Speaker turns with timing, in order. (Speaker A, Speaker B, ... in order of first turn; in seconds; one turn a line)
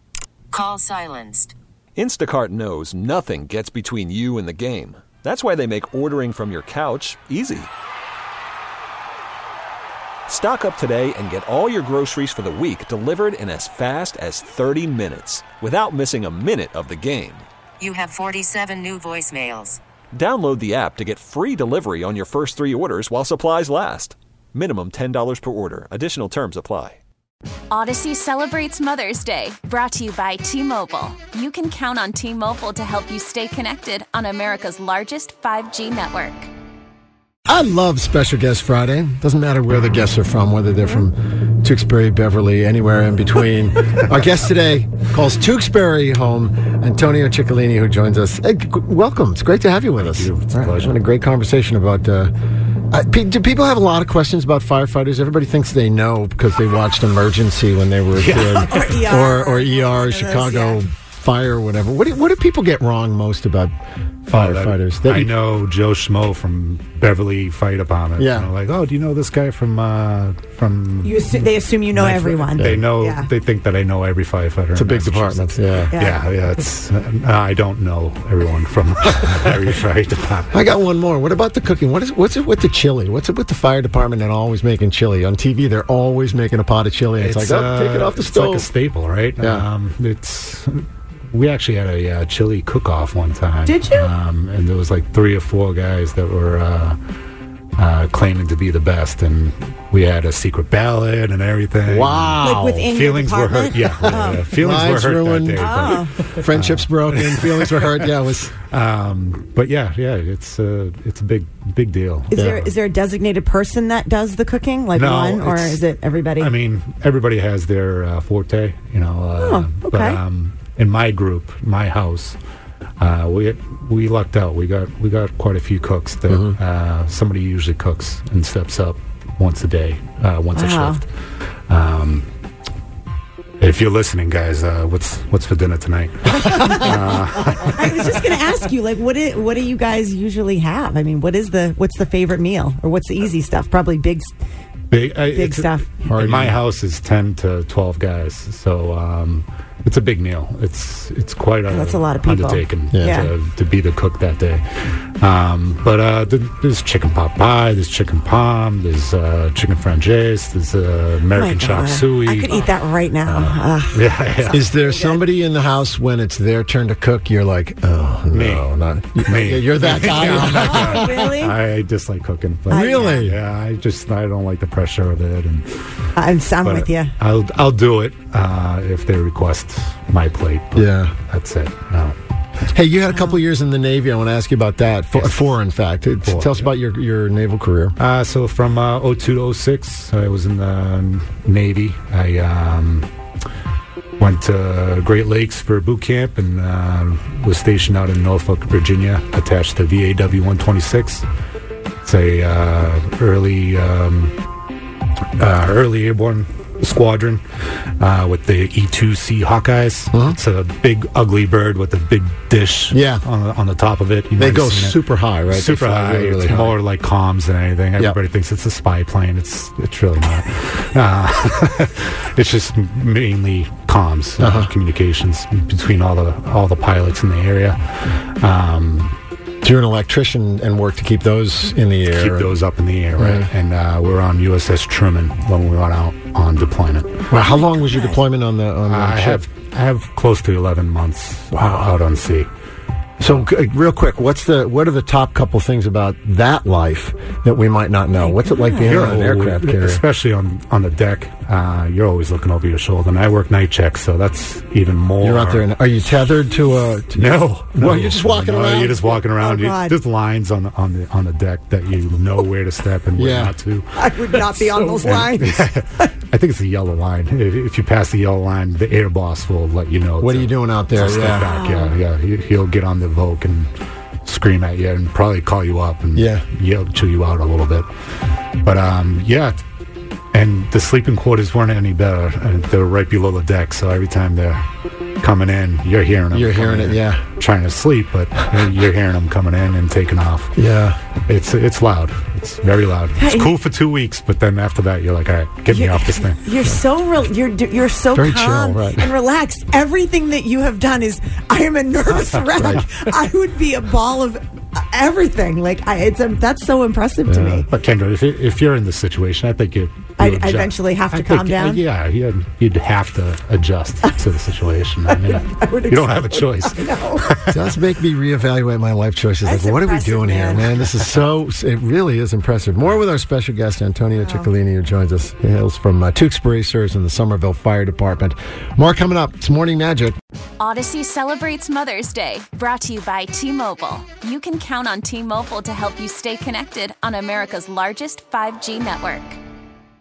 Speaker A: 0.5-1.6
Speaker B: 2.0-7.7
Speaker B: 10.3-17.5
Speaker A: 17.8-19.8
Speaker B: 20.1-27.0
Speaker C: 27.7-36.5
Speaker D: 37.5-52.3
Speaker E: 50.0-50.9
Speaker D: 52.9-63.7
Speaker E: 58.2-59.0
Speaker F: 58.6-60.8
Speaker D: 64.2-65.3
Speaker E: 64.3-71.3
Speaker D: 68.2-68.5
Speaker F: 71.0-73.3
Speaker E: 71.9-80.6
Speaker D: 74.8-75.9
Speaker F: 75.9-76.2
Speaker D: 80.5-88.7
Speaker E: 87.2-97.0
Speaker D: 89.4-89.7
Speaker F: 93.7-94.1
Speaker E: 97.8-107.9
Speaker D: 101.9-102.9
Speaker F: 102.4-104.5
Speaker D: 104.5-108.5
Speaker F: 105.6-106.1
Speaker E: 108.6-112.7
Speaker F: 112.3-116.5
Speaker E: 115.0-115.8
Speaker E: 116.4-122.4
Speaker F: 119.4-120.2
Speaker E: 123.0-131.1
Speaker D: 126.3-126.6
Speaker F: 130.5-131.0
Speaker E: 131.7-132.3
Speaker E: 133.6-138.1
Speaker F: 136.5-136.9
Speaker F: 137.4-144.3
Speaker E: 144.9-154.6
Speaker F: 145.3-146.1
Speaker D: 146.1-146.6
Speaker F: 151.7-153.3
Speaker E: 155.2-162.7
Speaker F: 161.3-165.2
Speaker D: 163.2-163.6
Speaker E: 163.9-164.6
Speaker D: 164.5-171.2
Speaker E: 168.3-175.7
Speaker F: 170.1-171.6
Speaker F: 172.7-173.2
Speaker D: 172.7-173.4
Speaker F: 176.2-177.1
Speaker E: 176.6-182.2
Speaker D: 180.8-181.1
Speaker D: 182.7-187.9
Speaker E: 186.2-186.7
Speaker E: 188.0-193.1
Speaker E: 194.2-201.3
Speaker E: 202.0-204.3
Speaker E: 205.4-207.4
Speaker E: 208.0-229.2
Speaker D: 210.1-210.4
Speaker D: 212.9-213.2
Speaker D: 214.4-216.8
Speaker D: 224.4-224.7
Speaker D: 229.6-232.6
Speaker E: 232.1-237.2
Speaker D: 233.2-233.5
Speaker D: 237.3-239.4
Speaker F: 237.5-238.2
Speaker E: 238.9-242.5
Speaker D: 243.2-250.0
Speaker F: 248.2-249.0
Speaker E: 248.9-255.6
Speaker D: 255.2-257.2
Speaker E: 257.2-273.7
Speaker D: 257.7-259.0
Speaker F: 259.4-260.0
Speaker D: 263.2-263.6
Speaker F: 264.0-266.1
Speaker D: 270.2-271.5
Speaker F: 271.2-272.0
Speaker E: 274.2-277.9
Speaker D: 276.1-276.4
Speaker E: 278.6-279.6
Speaker E: 280.3-284.6
Speaker E: 285.2-290.5
Speaker D: 286.3-287.2
Speaker D: 290.6-291.0
Speaker E: 291.3-296.4
Speaker F: 293.2-293.5
Speaker F: 295.7-307.7
Speaker D: 298.1-299.1
Speaker D: 307.3-307.6
Speaker E: 307.7-317.6
Speaker F: 310.2-311.8
Speaker F: 315.1-317.2
Speaker D: 317.5-330.2
Speaker F: 319.4-320.7
Speaker F: 324.2-324.5
Speaker C: 330.6-339.4